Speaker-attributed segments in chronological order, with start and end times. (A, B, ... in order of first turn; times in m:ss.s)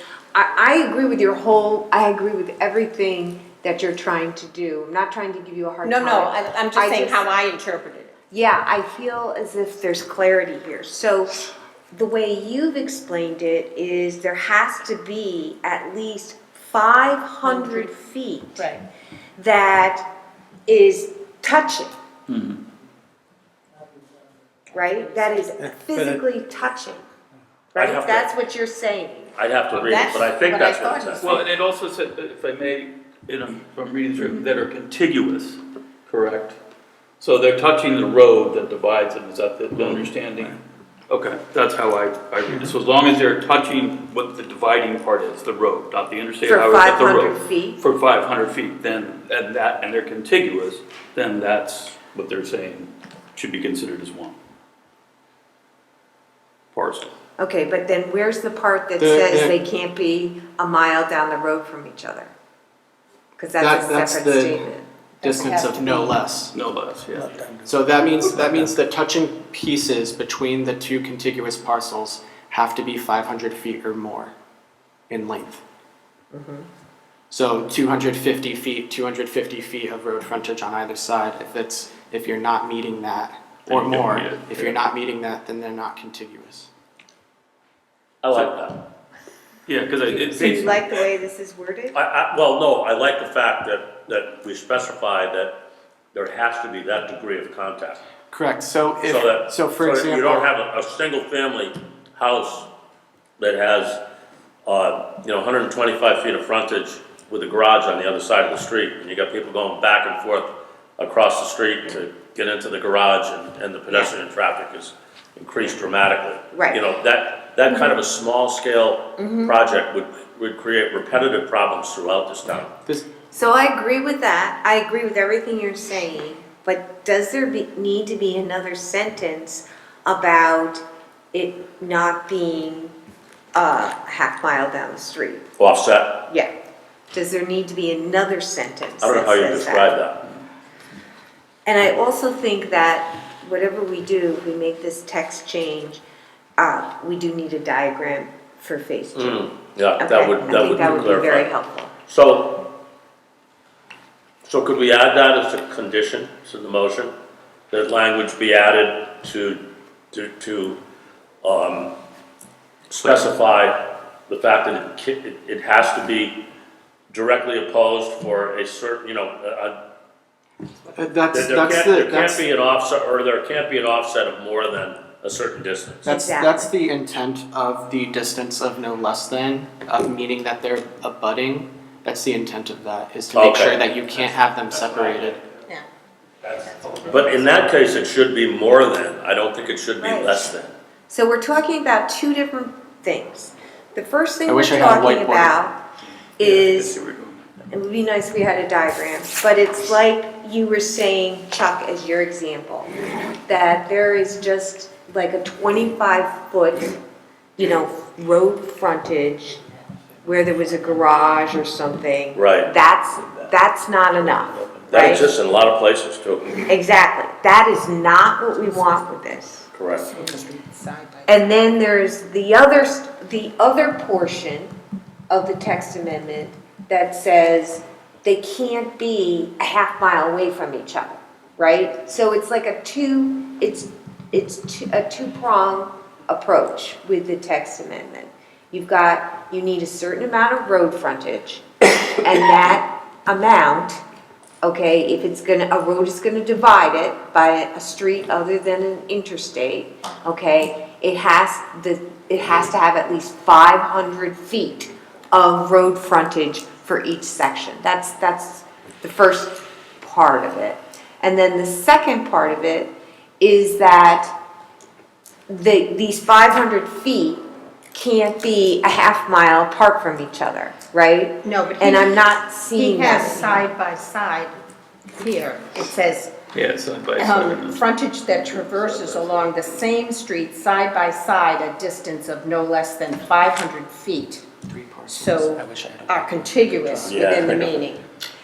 0:00.3-0:07.3 A
0:05.8-0:08.1 B
0:08.3-0:11.4 A
0:11.9-0:18.7 A
0:17.4-0:17.9 B
0:18.6-0:18.9 B
0:19.4-0:20.1 A
0:20.7-0:21.9 A
0:22.3-0:22.6 C
0:24.7-0:27.1 A
0:27.7-0:29.4 A
0:27.8-0:28.3 D
0:29.4-0:31.3 D
0:29.7-0:31.4 B
0:31.2-0:36.6 C
0:37.2-0:40.6 C
0:41.1-0:54.4 C
0:46.4-0:47.8 A
0:56.7-0:57.1 C
0:57.4-1:02.3 A
0:59.0-0:59.6 E
1:03.4-1:04.9 A
1:03.6-1:06.5 E
1:05.2-1:06.1 B
1:06.5-1:07.4 C
1:07.6-1:14.3 E
1:15.1-1:15.6 E
1:16.4-1:16.6 A
1:17.3-1:26.7 E
1:23.7-1:24.8 C
1:28.2-1:28.8 D
1:29.7-1:30.8 C
1:30.1-1:32.0 A
1:30.4-1:30.7 D
1:31.9-1:35.6 D
1:36.1-1:38.0 D
1:38.3-1:40.5 E
1:39.0-1:42.7 D
1:43.4-1:44.0 D
1:44.6-2:02.7 D
1:56.5-1:56.8 A
1:59.2-1:59.6 A
2:03.3-2:13.0 A
2:13.6-2:15.5 A
2:15.6-2:16.3 D
2:17.1-2:20.0 A
2:19.0-2:20.3 D
2:21.7-2:26.0 A
2:26.6-2:29.5 A
2:29.2-2:31.5 D
2:30.0-2:31.9 A
2:32.1-2:32.7 D
2:34.4-2:37.1 D
2:37.7-2:39.6 D
2:40.1-2:40.8 D
2:41.4-2:42.0 D
2:42.9-2:46.5 D
2:47.1-2:49.8 D
2:50.9-2:52.5 E
2:51.3-2:56.1 D
2:56.0-3:05.4 E
2:56.1-2:56.7 A
3:03.3-3:03.8 D
3:07.0-3:10.8 D
3:10.0-3:10.5 A
3:11.1-3:15.8 A
3:14.5-3:15.5 E
3:16.4-3:17.0 A
3:16.4-3:17.4 C
3:17.7-3:22.9 A
3:23.4-3:27.0 A
3:27.6-3:29.6 A
3:30.2-3:35.3 A
3:32.4-3:32.7 D
3:33.2-3:33.5 C
3:34.2-3:35.3 C
3:34.9-3:36.6 D
3:36.7-3:39.7 A
3:39.7-3:40.1 D
3:40.0-3:41.5 B
3:41.3-3:44.7 A
3:45.3-4:04.0 A
4:04.6-4:24.4 A
4:25.5-4:33.7 A
4:31.4-4:34.6 B
4:35.2-4:36.3 B
4:36.5-4:39.5 C
4:37.2-4:44.5 B
4:44.6-4:47.5 E
4:45.1-4:48.0 B
4:47.1-4:47.8 D